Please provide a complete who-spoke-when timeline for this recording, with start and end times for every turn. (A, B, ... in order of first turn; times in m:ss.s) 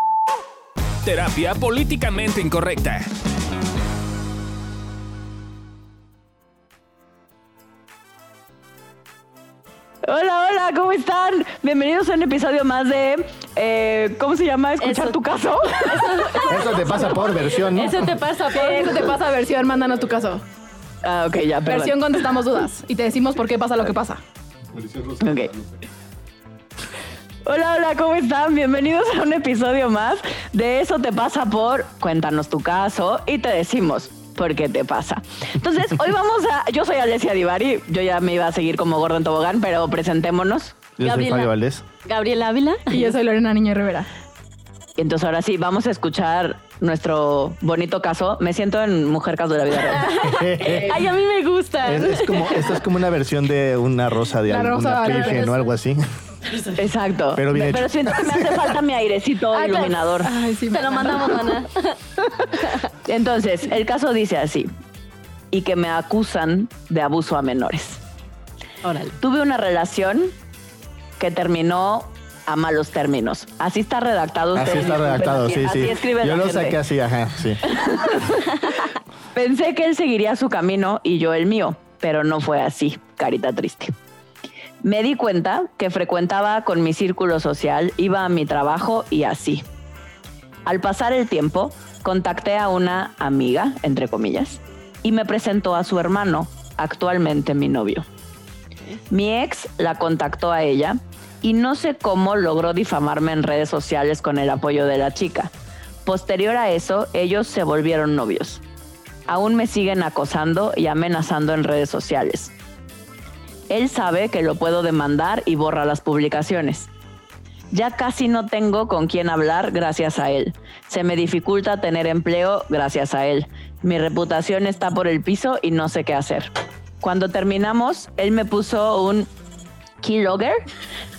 0:01.0-0:03.1 A
0:10.0-0:16.6 B
0:14.8-0:15.2 C
0:15.9-0:19.2 C
0:16.4-0:18.1 D
0:18.5-0:20.4 E
0:21.0-0:22.1 B
0:21.6-0:24.2 E
0:24.7-0:25.6 D
0:25.2-0:25.5 B
0:27.4-0:40.8 B
0:41.0-0:41.8 D
0:41.0-0:41.5 C
0:42.0-0:43.2 C
0:42.9-0:44.1 E
0:45.0-0:50.1 B
0:49.9-0:52.8 C
0:50.2-0:51.0 D
0:51.8-0:56.0 D
0:54.5-0:55.5 E
0:55.1-0:55.5 C
0:56.7-1:00.3 B
0:57.3-0:58.6 D
0:59.5-1:01.3 E
1:00.7-1:01.9 C
1:03.0-1:04.7 B
1:05.5-1:08.0 B
1:08.8-1:09.1 C
1:09.2-1:10.3 B
1:11.2-1:16.8 B
1:14.5-1:17.6 D
1:17.6-1:18.6 B
1:19.3-1:23.9 B
1:24.8-1:29.6 B
1:30.6-1:38.0 B
1:39.1-1:45.5 B
1:46.0-1:48.6 B
1:49.3-1:52.5 B
1:53.7-1:56.9 B
1:57.7-2:06.5 B
2:07.0-2:09.3 B
2:10.0-2:10.6 B